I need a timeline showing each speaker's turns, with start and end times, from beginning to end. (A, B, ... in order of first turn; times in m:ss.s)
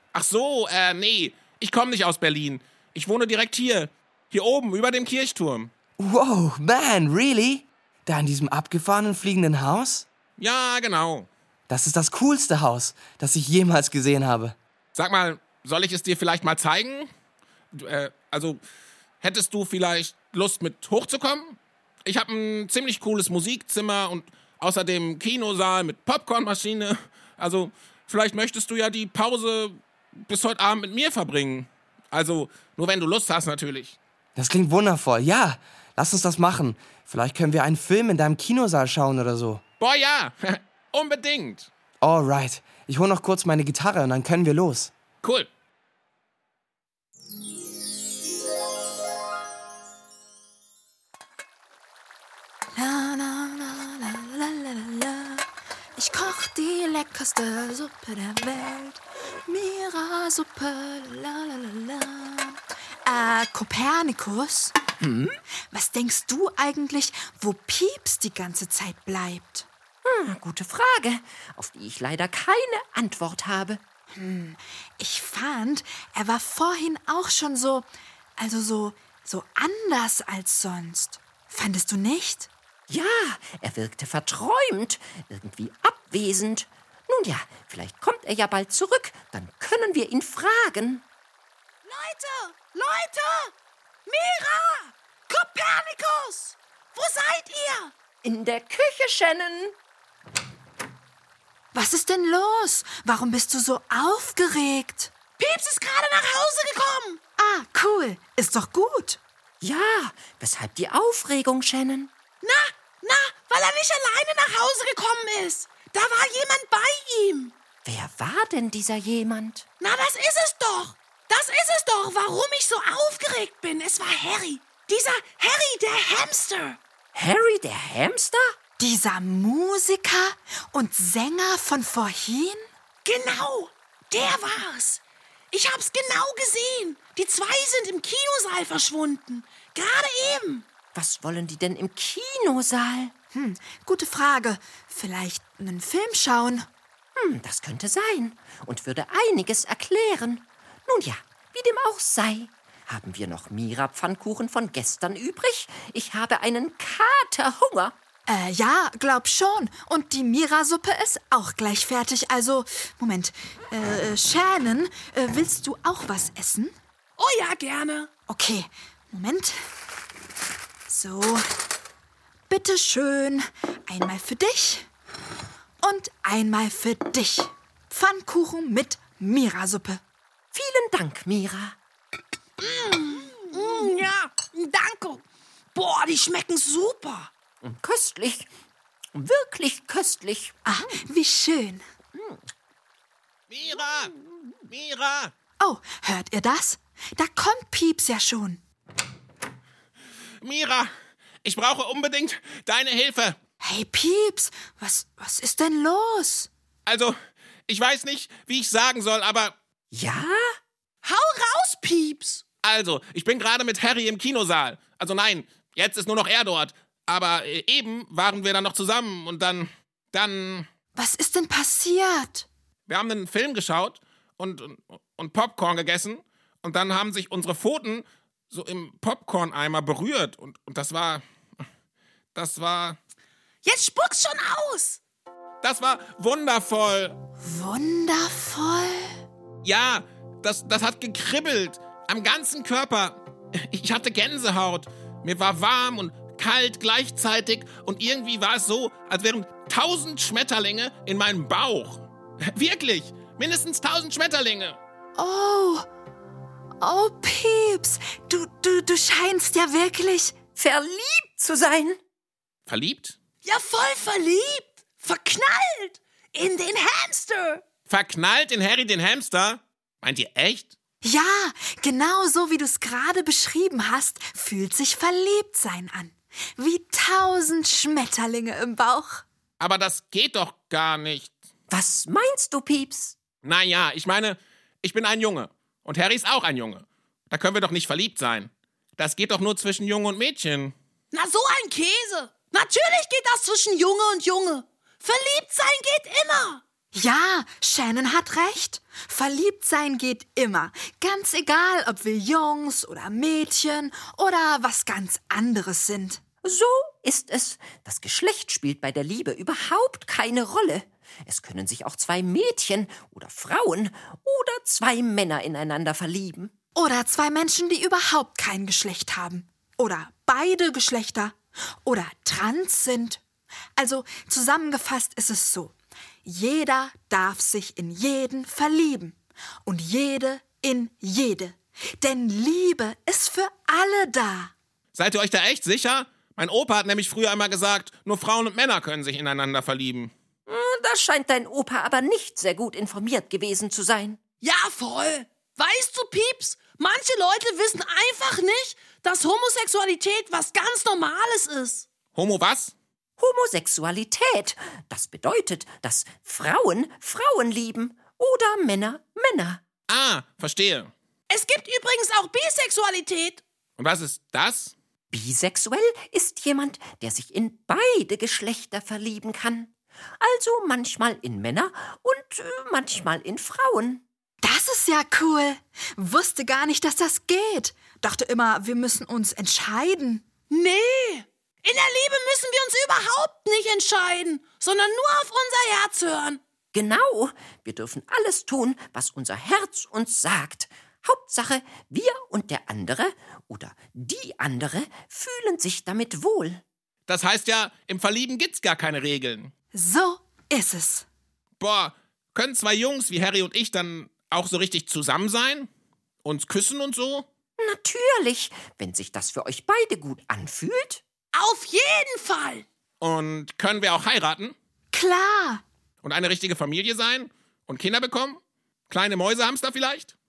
0:00.1-0:05.7 A
0:06.0-0:10.0 B
0:10.4-0:11.3 A
0:11.7-0:14.6 B
0:14.9-0:17.1 A
0:17.7-0:18.6 A
0:19.2-0:34.0 A
0:34.4-0:39.6 B
0:39.8-0:41.7 A
0:42.0-0:44.9 B
0:45.2-0:45.5 A
0:52.8-0:55.4 C
0:56.0-1:04.8 C
1:05.0-1:05.4 D
1:05.7-1:09.7 C
1:10.0-1:13.8 D
1:14.1-1:17.8 C
1:18.4-1:22.5 C
1:22.9-1:31.0 D
1:31.8-1:33.5 E
1:34.0-1:37.9 E
1:38.2-1:39.7 D
1:41.7-1:45.1 C
1:45.4-1:47.2 E
1:47.4-1:49.2 C
1:49.6-1:52.1 D
1:52.4-1:57.6 E
1:57.8-1:59.6 D
1:59.8-2:06.8 E
2:07.1-2:08.5 D
2:08.8-2:12.7 C
2:13.0-2:20.7 E
2:20.9-2:23.1 D
2:23.3-2:26.7 C
2:27.2-2:38.0 D
2:38.3-2:46.7 C
2:47.2-2:48.1 E
2:48.3-2:49.6 C
2:50.9-2:51.4 C
2:52.5-2:54.9 C
2:55.8-3:00.0 C
3:00.5-3:01.8 D
3:02.6-3:07.3 E
3:07.6-3:08.5 D
3:09.1-3:10.9 D
3:10.6-3:11.8 C
3:12.1-3:12.4 D
3:13.5-3:14.1 A
3:14.7-3:15.3 A
3:15.6-3:18.6 C
3:20.4-3:20.9 A
3:21.4-3:23.4 A
3:23.6-3:26.5 C
3:26.8-3:27.2 A
3:27.7-3:29.5 A
3:29.9-3:30.4 D
3:31.0-3:32.4 E
3:32.6-3:40.7 A
3:41.0-3:42.5 C
3:42.9-3:51.2 A
3:52.3-3:53.0 A
3:53.6-3:55.0 E
3:55.6-3:57.2 A
3:57.4-3:59.2 C
3:59.6-4:14.8 A
4:15.2-4:15.9 C
4:16.8-4:20.3 C
4:20.6-4:22.0 D
4:22.7-4:23.2 A
4:23.4-4:27.6 E
4:27.9-4:30.7 A
4:31.0-4:39.2 C
4:39.6-4:41.3 A
4:41.7-4:43.2 D
4:43.4-4:50.7 A
4:51.1-4:56.6 E
4:56.9-5:06.2 C
5:06.4-5:16.5 D
5:16.7-5:23.2 C
5:23.8-5:34.5 C
5:34.9-5:40.1 A
5:40.5-5:44.2 D
5:44.4-5:51.9 E
5:52.1-5:52.7 A
5:53.2-5:59.6 D
5:59.9-6:00.9 A
6:01.3-6:03.4 E
6:03.8-6:04.7 A
6:05.1-6:14.0 D
6:14.4-6:20.2 C
6:20.5-6:26.4 E
6:26.7-6:36.6 D
6:37.1-6:39.5 A
6:39.7-6:41.0 C
6:41.6-6:45.7 A
6:46.2-6:47.2 A
6:47.6-6:51.0 D
6:51.3-6:52.6 E
6:53.0-6:54.5 A
6:54.9-6:55.6 C
6:56.0-7:00.1 A